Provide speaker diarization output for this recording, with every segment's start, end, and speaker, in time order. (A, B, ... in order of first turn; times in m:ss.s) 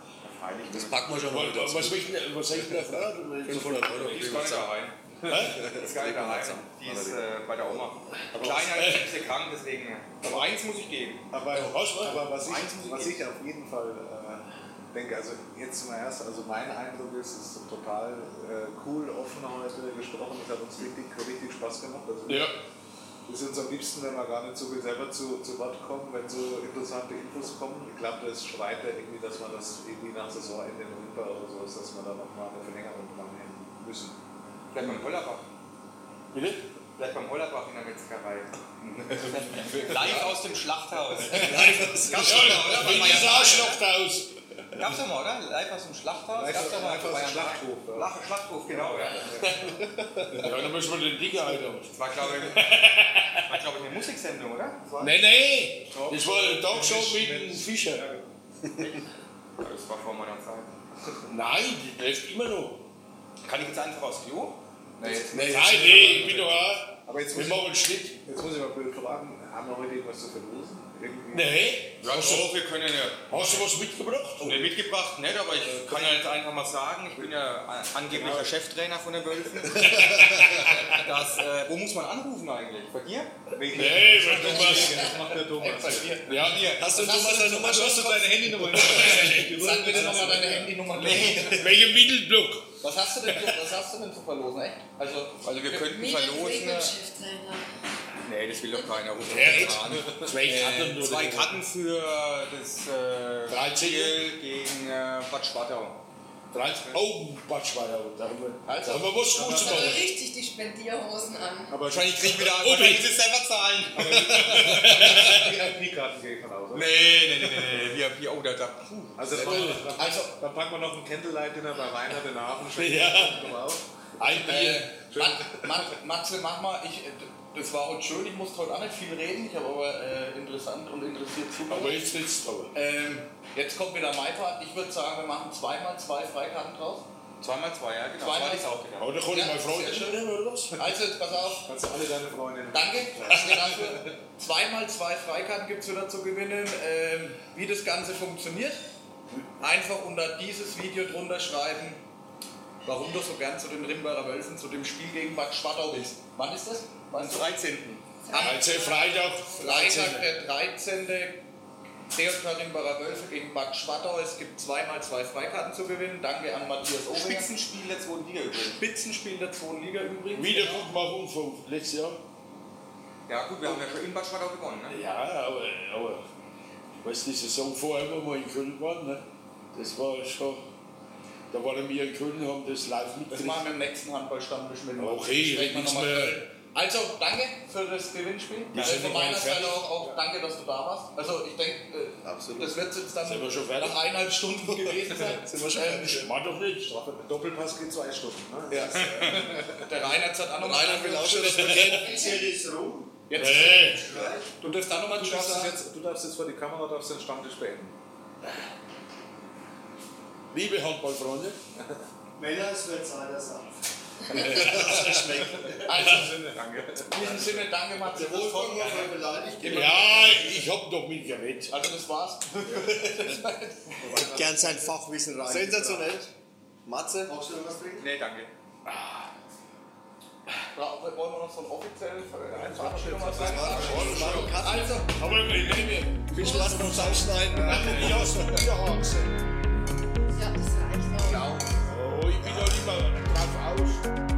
0:00.2-0:01.0 A
0:00.7-0:02.1 B
0:01.2-0:04.6 C
0:03.4-0:04.7 B
0:04.0-0:05.0 A
0:05.3-0:05.6 C
0:05.3-0:07.9 B
0:05.6-0:11.2 A
0:08.4-0:09.2 C
0:11.3-0:22.6 D
0:11.5-0:12.3 C
0:12.4-0:13.2 A
0:22.3-0:22.6 C
0:23.3-0:34.2 D
0:34.7-0:35.4 A
0:36.3-0:36.6 C
0:37.0-0:38.5 A
0:39.1-0:43.8 A
0:39.4-0:40.5 E
0:41.4-0:42.4 B
0:42.1-0:44.3 C
0:44.7-0:49.3 A
0:46.3-0:49.7 D
0:49.4-0:49.8 E
0:50.3-0:53.6 C
0:51.8-0:52.8 A
0:53.4-0:55.2 A
0:55.0-0:58.0 C
0:55.9-0:58.2 D
0:59.6-1:00.7 A
1:01.3-1:02.8 C
1:03.4-1:05.4 A
1:05.0-1:07.6 D
1:05.3-1:06.1 B
1:05.4-1:08.2 C
1:08.2-1:11.6 D
1:11.3-1:12.6 C
1:12.0-1:13.6 A
1:13.3-1:14.7 C
1:14.4-1:20.1 A
1:18.1-1:18.5 C
1:19.8-1:21.0 C
1:20.8-1:23.4 A
1:23.5-1:30.8 D
1:23.7-1:25.1 C
1:24.4-1:26.6 E
1:26.2-1:27.5 C
1:26.5-1:26.8 A
1:26.5-1:28.4 B
1:28.6-1:30.1 C
1:28.7-1:31.7 E
1:30.9-1:31.7 A
1:31.5-1:33.6 C
1:32.8-1:35.8 E
1:35.4-1:36.9 A
1:35.9-1:37.7 F
1:38.2-1:46.0 A
1:39.3-1:41.6 C
1:40.0-1:40.3 D
1:43.5-1:44.2 C
1:46.5-1:50.0 C
1:48.6-1:49.8 E
1:49.5-1:51.8 F
1:51.7-1:52.4 D
1:51.8-1:55.1 A
1:52.4-1:53.1 C
1:53.9-1:56.9 D
1:54.0-1:55.7 C
1:56.7-2:00.0 A
1:56.8-1:57.8 E
1:59.2-2:03.8 D
1:59.3-1:59.9 C
2:02.7-2:03.6 C
2:04.2-2:04.9 C
2:04.4-2:12.0 E
2:05.1-2:05.8 D
2:11.7-2:12.7 C
2:12.7-2:17.1 E
2:17.4-2:19.2 A
2:18.2-2:20.2 E
2:19.0-2:20.9 C
2:20.7-2:21.7 E
2:21.6-2:24.0 D
2:22.7-2:28.8 E
2:29.6-2:32.0 E
2:32.8-2:37.7 E
2:37.2-2:38.6 A
2:38.2-2:39.1 F
2:38.3-2:40.3 C
2:39.6-2:41.4 E
2:42.1-2:47.5 E
2:47.1-2:48.8 A
2:48.5-2:50.9 E
2:50.3-2:52.2 C
2:53.3-2:55.0 A
2:54.9-2:56.2 C
2:57.0-3:00.6 C
3:01.5-3:03.7 C
3:03.3-3:16.3 E
3:05.0-3:06.4 C
3:08.7-3:09.8 C
3:12.2-3:12.8 B
3:13.2-3:14.0 C
3:14.7-3:16.3 B
3:15.9-3:16.9 C
3:16.8-3:20.0 D
3:18.7-3:19.4 B
3:19.0-3:22.3 E
3:20.5-3:22.3 B
3:21.9-3:24.5 G
3:23.3-3:25.8 E
3:23.4-3:24.0 C
3:24.9-3:28.0 D
3:30.5-3:31.6 C
3:32.4-3:36.1 G
3:34.3-3:35.1 C
3:34.4-3:40.6 E
3:36.0-3:37.9 D
3:38.1-3:40.0 G
3:39.7-3:41.8 C
3:41.7-3:44.4 E
3:44.0-3:46.2 G
3:44.0-3:44.6 D
3:45.4-3:46.3 B
3:46.8-3:47.3 B
3:47.3-3:48.0 G
3:48.0-3:48.5 A
3:48.8-3:49.3 C
3:50.7-3:55.1 E
3:52.5-3:54.3 D
3:53.3-3:55.1 B
3:53.7-3:59.4 C
3:55.4-3:55.9 D
3:56.3-3:58.2 B
3:57.7-3:58.2 D
4:00.4-4:01.5 F
4:01.2-4:01.8 E
4:01.8-4:04.1 C